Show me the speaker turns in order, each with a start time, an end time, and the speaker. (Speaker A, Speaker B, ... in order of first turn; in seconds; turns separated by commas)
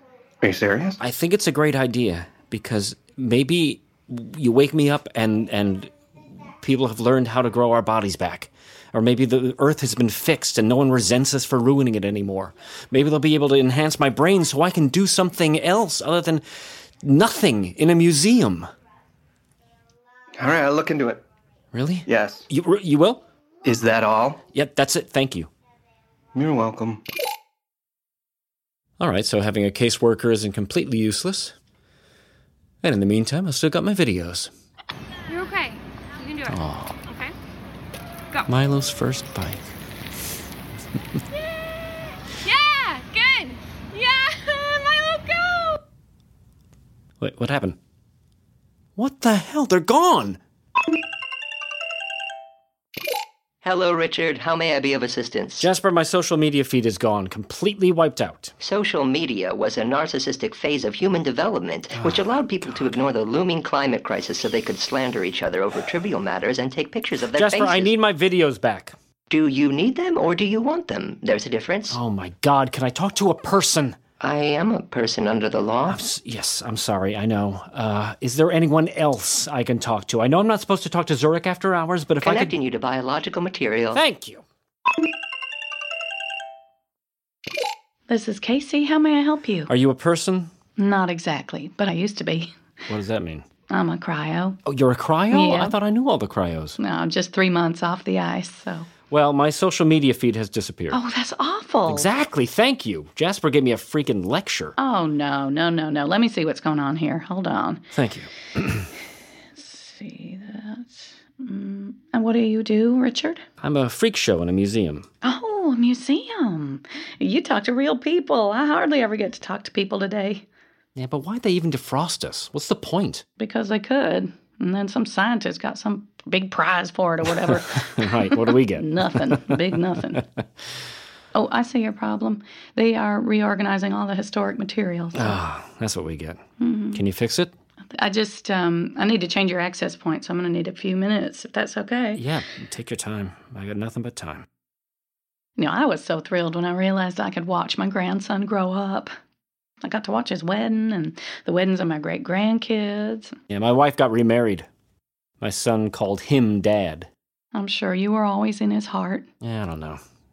Speaker A: 0.4-1.0, Speaker B: 1.0-18.7, Speaker A: 20.4-21.2, Speaker B: 21.7-23.2, Speaker A: 22.1-22.4, Speaker A: 23.6-24.4, Speaker B: 24.5-25.5, Speaker A: 26.3-27.0, Speaker B: 29.0-31.6, Speaker B: 32.8-34.5, Speaker C: 35.3-37.3, Speaker B: 36.5-37.0, Speaker B: 38.5-39.6, Speaker C: 41.3-41.8, Speaker C: 42.4-45.8, Speaker B: 47.2-47.8, Speaker B: 49.0-50.4, Speaker D: 53.6-55.7, Speaker B: 55.6-58.5, Speaker D: 58.6-67.9, Speaker B: 61.9-63.0, Speaker B: 67.3-69.0, Speaker D: 69.3-72.0, Speaker B: 71.9-74.0, Speaker D: 74.2-76.0, Speaker B: 75.8-82.5, Speaker D: 82.2-84.0, Speaker B: 83.9-84.4, Speaker E: 88.1-89.7, Speaker B: 89.7-90.5, Speaker E: 90.8-92.5, Speaker B: 92.9-93.5, Speaker E: 93.7-94.6, Speaker B: 94.7-96.8, Speaker E: 95.3-95.8, Speaker E: 96.8-98.9, Speaker B: 99.1-101.0, Speaker E: 100.9-102.1, Speaker B: 101.9-104.7, Speaker E: 104.8-107.8, Speaker B: 107.9-108.9, Speaker E: 109.5-113.4, Speaker B: 113.6-115.1, Speaker E: 115.2-120.4, Speaker B: 120.9-123.2, Speaker E: 123.4-130.2, Speaker B: 127.3-129.6, Speaker B: 130.1-130.4, Speaker E: 131.3-135.4, Speaker B: 135.1-136.4, Speaker E: 136.6-137.0, Speaker B: 136.9-137.5, Speaker E: 137.9-142.2, Speaker B: 142.1-144.4, Speaker E: 145.6-149.1, Speaker E: 149.8-153.3, Speaker B: 153.5-154.7, Speaker B: 155.4-157.1, Speaker E: 157.5-159.3, Speaker B: 159.4-160.0